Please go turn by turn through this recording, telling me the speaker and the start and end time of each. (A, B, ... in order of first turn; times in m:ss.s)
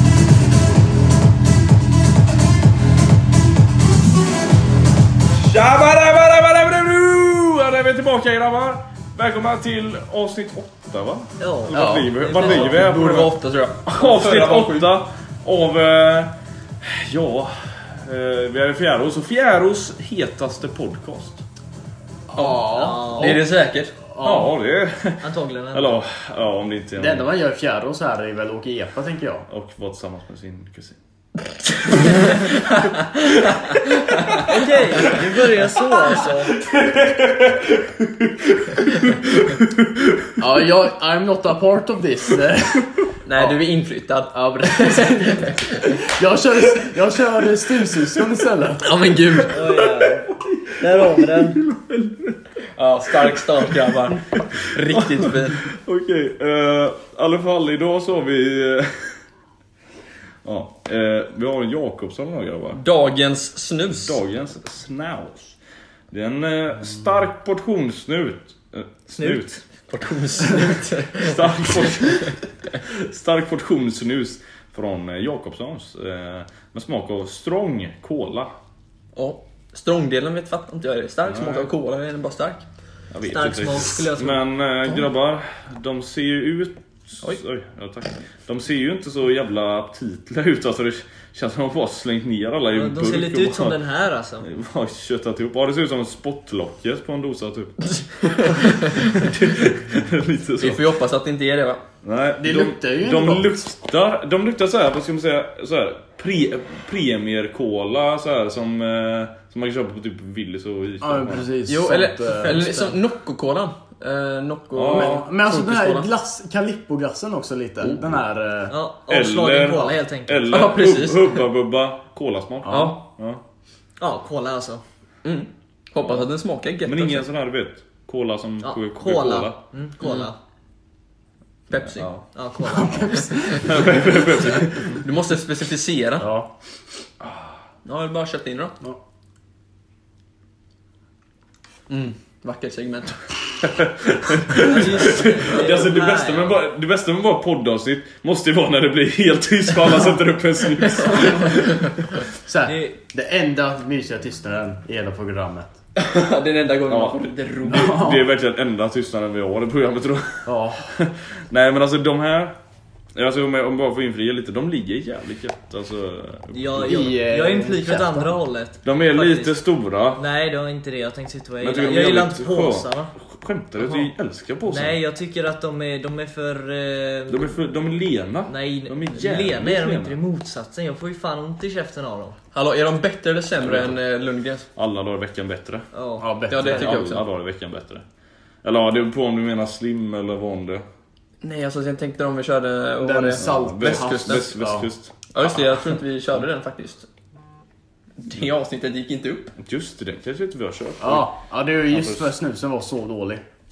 0:05.3-0:21.4 A
0:11.4-0:12.6 B
0:11.7-0:12.1 C
0:11.8-0:14.9 D
0:22.3-0:23.4 C
0:22.4-0:23.9 D
0:22.7-0:23.4 B
0:24.1-0:24.5 C
0:24.2-0:27.3 A
0:25.2-0:26.0 B
0:27.0-0:29.5 C
0:29.5-0:31.0 A
0:31.9-0:34.4 A
0:34.4-0:36.6 B
0:36.5-0:40.4 A
0:40.4-0:43.6 C
0:43.2-0:45.6 D
0:44.3-0:49.4 C
0:48.8-0:49.9 D
0:49.5-0:50.3 B
0:50.8-0:51.6 B
0:50.9-0:52.4 A
0:52.8-0:55.7 D
0:53.2-0:59.2 A
1:00.4-1:02.8 A
1:02.8-1:04.2 D
1:03.9-1:05.6 A
1:06.1-1:09.6 A
1:09.2-1:09.6 B
1:09.9-1:12.4 D
1:11.2-1:18.5 A
1:19.2-1:22.6 D
1:21.3-1:21.7 A
1:23.1-1:33.8 A
1:23.3-1:24.4 B
1:32.7-1:34.5 B
1:34.4-1:40.8 A
1:38.0-1:39.2 D
1:40.6-1:41.8 D
1:42.0-1:51.5 A
1:42.4-1:43.6 C
1:51.0-1:53.0 C
1:51.7-1:56.1 D
1:54.7-1:55.2 A
1:54.9-1:58.7 C
1:58.7-2:00.7 B
1:59.1-2:03.4 A
2:00.5-2:01.4 D
2:02.7-2:03.0 C
2:02.7-2:03.0 D
2:04.0-2:04.8 B
2:05.2-2:07.2 D
2:06.0-2:06.3 A
2:06.8-2:09.6 A
2:08.6-2:10.4 B
2:10.0-2:10.3 D
2:11.7-2:12.1 D
2:11.8-2:12.3 A
2:12.3-2:13.3 B
2:12.6-2:14.2 C
2:13.4-2:15.0 A
2:14.5-2:16.3 D
2:16.2-2:16.5 C
2:17.2-2:17.6 A
2:17.8-2:18.8 D
2:21.9-2:23.2 D
2:23.6-2:32.1 A
2:24.5-2:26.6 B
2:32.4-2:35.7 C
2:32.7-2:33.0 B
2:36.0-2:38.0 D
2:36.9-2:42.6 A
2:37.7-2:38.2 C
2:40.5-2:40.9 C
2:43.2-2:47.0 A
2:46.5-2:49.6 B
2:46.8-2:48.4 C
2:48.8-2:50.2 A
2:50.2-2:53.1 B
2:51.6-2:55.0 A
2:53.8-2:54.1 D
2:54.7-2:57.5 B
2:57.3-3:00.2 A
2:58.5-3:02.4 B
3:02.5-3:04.7 D
3:03.6-3:04.0 A
3:04.8-3:05.9 A
3:05.9-3:06.3 B
3:06.2-3:07.0 C
3:06.5-3:07.2 D
3:06.5-3:08.0 A
3:08.6-3:10.8 A
3:11.4-3:14.5 D
3:13.0-3:14.9 C
3:13.4-3:15.6 A
3:15.3-3:17.1 D
3:18.2-3:19.5 D
3:19.6-3:21.3 A
3:21.0-3:23.4 C
3:21.9-3:22.3 A